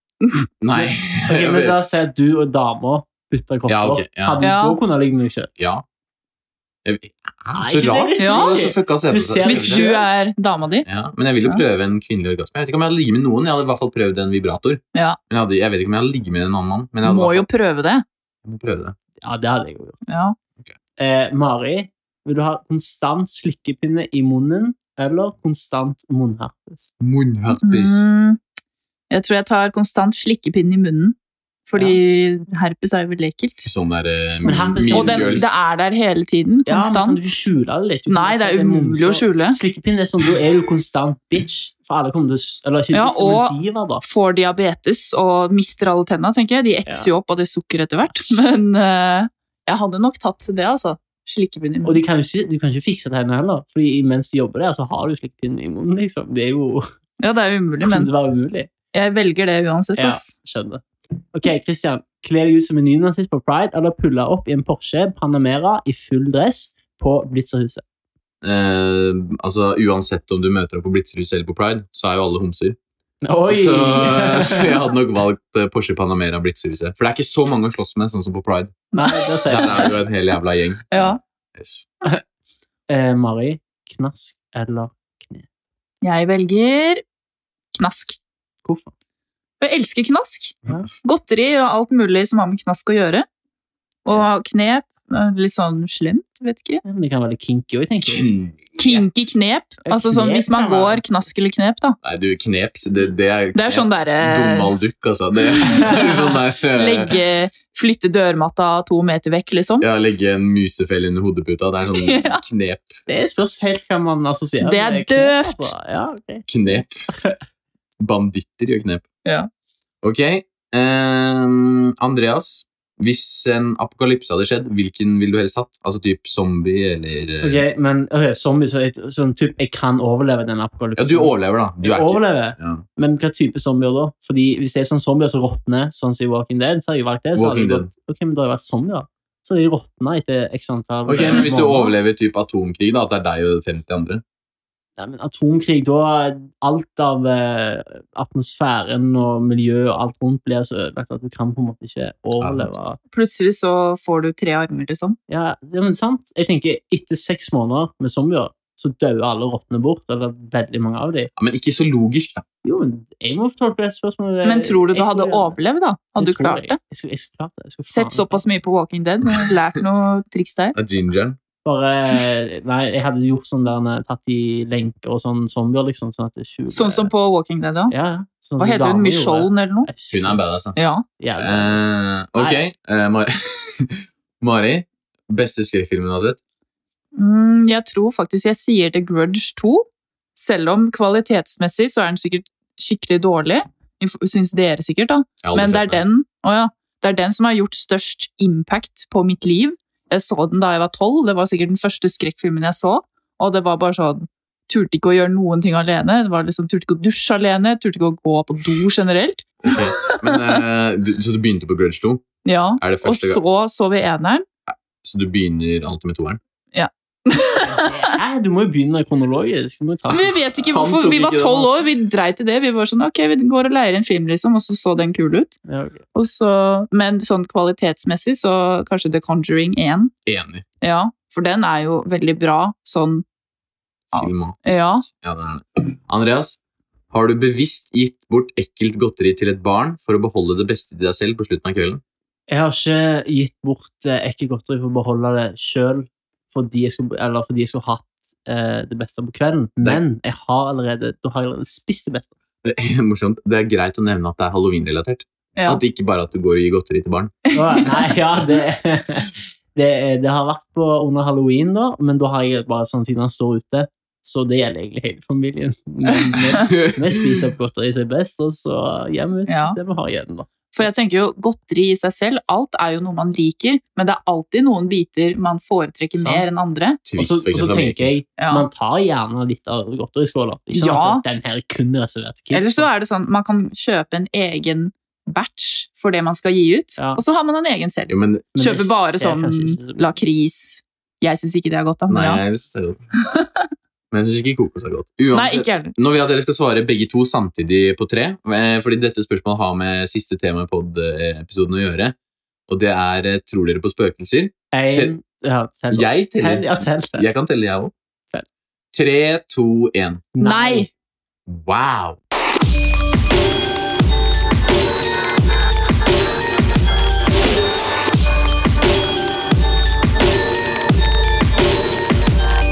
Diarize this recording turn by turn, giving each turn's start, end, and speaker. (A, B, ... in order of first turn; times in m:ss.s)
0:00.2-0:00.5 A
0:00.6-0:01.8 B
0:00.7-0:05.5 C
0:03.7-0:04.4 B
0:04.4-0:04.8 A
0:05.6-0:05.8 B
0:06.8-0:09.9 B
0:07.6-0:10.1 C
0:08.2-0:08.5 A
0:09.4-0:10.9 A
0:10.9-0:17.5 B
0:17.0-0:18.0 A
0:18.4-0:19.0 B
0:19.2-0:20.2 C
0:20.1-0:20.4 A
0:21.0-0:26.9 C
0:27.0-0:28.1 B
0:27.5-0:28.4 A
0:29.1-0:31.2 A
0:31.7-0:33.6 A
0:31.8-0:32.0 C
0:33.6-0:35.5 B
0:34.4-0:35.5 C
0:34.9-0:37.2 A
0:36.7-0:44.0 C
0:38.1-0:39.6 A
0:42.9-0:52.0 A
0:51.8-0:56.9 C
0:57.2-0:58.1 A
0:57.8-0:58.7 C
0:58.9-1:00.3 A
1:00.0-1:00.8 C
1:01.3-1:07.8 C
1:08.4-1:12.8 B
1:13.2-1:14.8 C
1:13.5-1:18.8 B
1:18.9-1:19.9 A
1:19.0-1:19.9 C
1:19.4-1:20.9 B
1:20.9-1:21.2 A
1:21.6-1:21.9 B
1:22.9-1:25.5 C
1:26.0-1:27.0 A
1:27.7-1:28.2 A
1:28.6-1:28.9 C
1:29.6-1:33.3 A
1:34.0-1:36.8 A
1:36.8-1:38.3 C
1:38.0-1:39.1 B
1:38.8-1:42.0 A
1:39.9-1:41.0 C
1:42.0-1:47.2 B
1:43.6-1:44.7 A
1:45.6-1:49.9 A
1:49.8-1:53.0 B
1:51.9-1:52.4 A
1:53.1-1:56.5 C
1:54.6-1:55.7 A
1:56.5-1:57.1 B
1:57.1-1:57.4 C
1:58.0-1:59.1 B
2:00.0-2:07.6 B
2:07.4-2:21.9 C
2:11.0-2:12.8 B
2:17.4-2:17.9 B
2:21.1-2:24.2 B
2:25.0-2:33.0 C
2:32.4-2:32.7 B
2:33.1-2:35.2 A
2:35.3-2:41.3 C
2:41.4-2:42.4 B
2:42.6-2:45.6 C
2:44.4-2:46.8 A
2:46.2-2:48.4 C
2:47.9-2:50.8 A
2:50.8-2:51.4 B
2:51.6-2:57.1 C
2:56.7-2:58.0 A
2:57.9-3:00.4 C
2:58.6-2:59.9 A
3:00.1-3:00.8 B
3:00.8-3:01.1 A
3:01.2-3:02.6 C
3:01.4-3:06.4 B
3:07.2-3:30.6 A
3:15.4-3:16.0 B
3:29.6-3:32.3 B
3:32.4-3:34.4 A
3:32.8-3:33.4 B
3:34.7-3:36.4 B
3:36.7-3:38.2 A
3:37.6-3:40.4 C
3:40.1-3:45.6 A
3:40.6-3:41.8 B
3:45.7-3:46.0 C
3:46.2-3:50.1 A
3:50.3-3:50.6 B
3:50.8-3:53.2 A
3:54.1-3:55.0 A
3:54.1-3:56.6 B
3:57.1-4:02.0 B
4:02.5-4:12.3 C
4:12.6-4:17.4 B
4:17.5-4:17.8 A
4:17.5-4:30.7 C
4:26.5-4:27.4 B
4:29.5-4:29.8 A
4:30.7-4:37.0 A
4:36.2-4:36.4 C
4:37.0-4:38.2 B
4:37.2-4:42.9 C
4:38.4-4:38.6 A
4:40.7-4:41.2 A
4:42.5-4:52.4 A
4:48.1-4:48.4 B
4:48.6-4:50.0 C
4:52.1-4:53.0 B
4:53.2-4:53.7 A
4:54.1-5:02.2 B
4:55.3-4:55.9 A
5:02.7-5:05.2 B
5:04.7-5:07.3 C
5:05.9-5:07.9 B
5:08.9-5:10.3 B
5:10.4-5:10.9 C
5:10.4-5:10.9 A
5:11.5-5:12.2 B